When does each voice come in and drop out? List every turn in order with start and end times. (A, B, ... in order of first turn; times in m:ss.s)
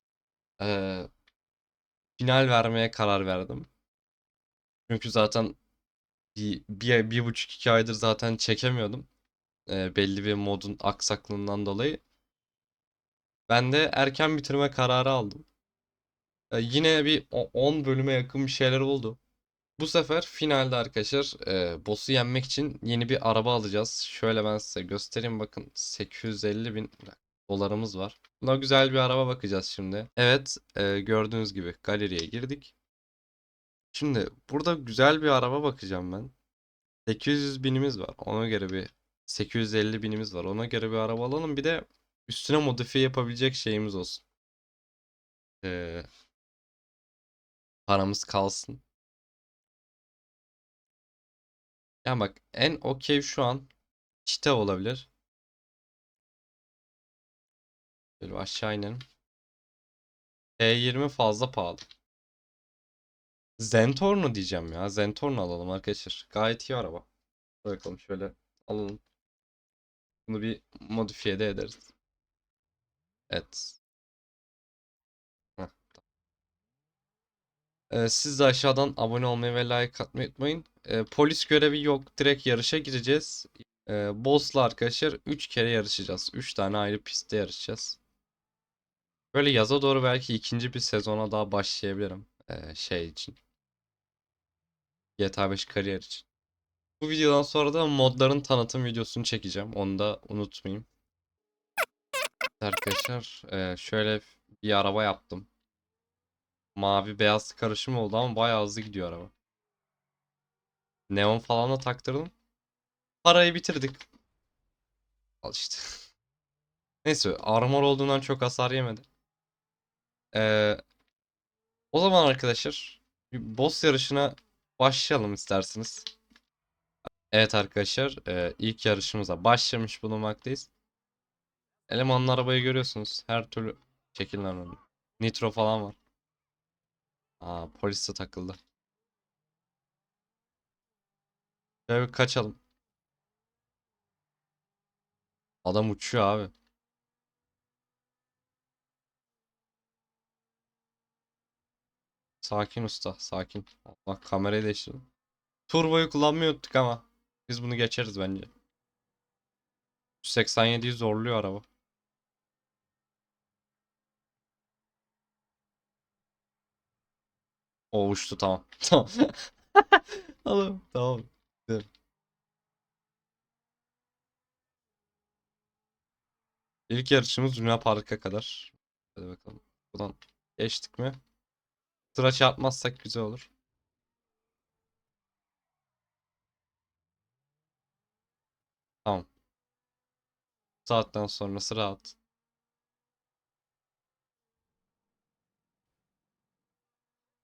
0:00.6-0:01.1 A
0:02.2-0:03.7 A
0:04.9-0:05.6 A
0:06.4-0:09.1 A
0:09.7-0:12.0 A
0:13.5-0:15.4 A
0:16.5-0:19.2 A
0:19.8-0:32.7 A
0:33.9-0:36.3 A
0:37.0-0:44.2 A
0:45.6-0:46.1 A
0:47.9-0:48.8 A
0:52.0-0:53.7 A
0:54.2-0:55.1 A
0:58.2-0:59.0 A
1:00.6-1:01.8 A
1:03.6-1:07.1 A
1:07.6-1:09.0 A
1:10.2-1:11.9 A
1:13.3-1:13.8 A
1:15.6-1:16.0 A
1:17.9-1:28.0 A
1:29.3-1:33.4 A
1:35.2-1:36.2 A
1:37.0-1:40.9 A
1:42.6-1:45.5 A
1:46.8-1:49.3 A
1:51.1-1:52.3 A
1:53.2-1:54.0 A
1:55.4-1:56.0 A
1:57.0-1:59.1 A
2:00.3-2:00.8 A
2:01.9-2:06.1 A
2:07.3-2:10.7 A
2:11.9-2:16.0 A
2:17.4-2:18.6 A
2:21.9-2:22.6 A
2:25.6-2:26.5 A
2:32.4-2:35.1 A
2:35.7-2:38.5 A
2:40.2-2:41.6 A
2:47.9-2:51.9 A
2:56.9-3:01.2 A
3:02.1-3:03.5 A
3:10.8-3:12.2 A